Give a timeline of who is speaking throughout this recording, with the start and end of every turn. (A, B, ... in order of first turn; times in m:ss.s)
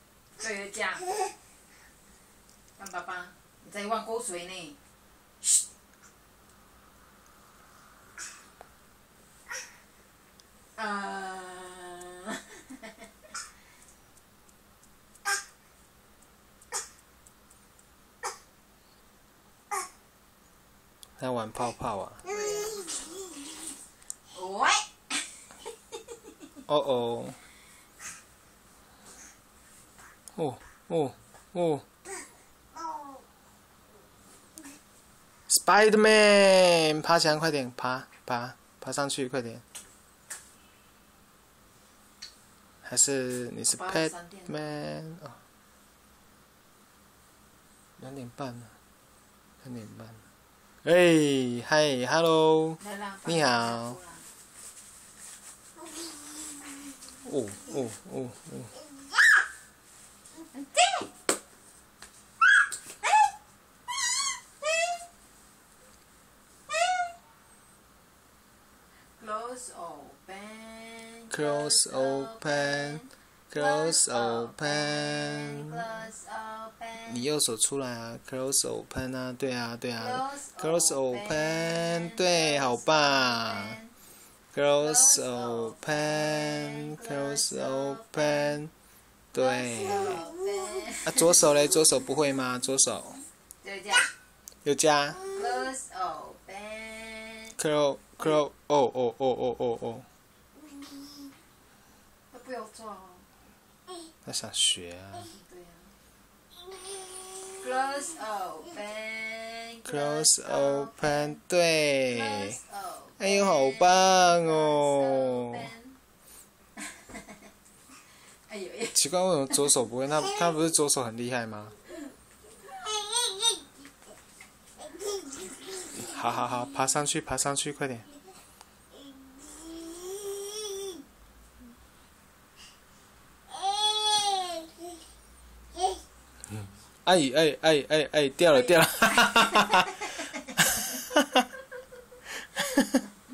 0:00.4-0:01.3 A
0:02.8-0:04.8 A
0:10.8-0:13.3 A
0:21.2-0:22.2 B
0:22.2-0:23.1 A
0:24.3-0:26.0 A
0:26.7-0:27.4 B
0:30.4-0:31.8 B
0:35.5-0:39.6 B
0:42.8-0:45.4 B
0:43.7-0:44.6 A
0:48.0-0:48.7 B
0:49.6-0:50.2 B
0:50.8-0:54.0 B
0:52.8-0:54.3 A
0:57.2-0:58.7 B
1:00.5-1:01.0 A
1:09.0-1:17.2 A
1:11.3-1:16.0 B
1:17.0-1:23.8 B
1:20.0-1:23.9 A
1:24.5-1:28.7 B
1:24.8-1:28.6 A
1:29.3-1:30.2 B
1:29.3-1:31.5 A
1:31.0-1:33.2 B
1:33.6-1:34.1 A
1:34.6-1:35.2 B
1:35.2-1:37.6 A
1:37.6-1:40.0 B
1:42.3-1:43.3 A
1:44.2-1:45.3 B
1:45.2-1:45.9 A
1:47.5-1:51.4 A
1:49.8-1:52.6 B
1:52.1-1:56.0 A
1:53.2-1:55.7 B
1:56.8-1:57.4 A
1:58.1-1:59.8 A
1:58.9-2:01.7 B
2:05.9-2:08.1 B
2:17.0-2:20.1 B
2:18.5-2:19.9 A
2:20.8-2:21.2 B
2:22.3-2:23.0 B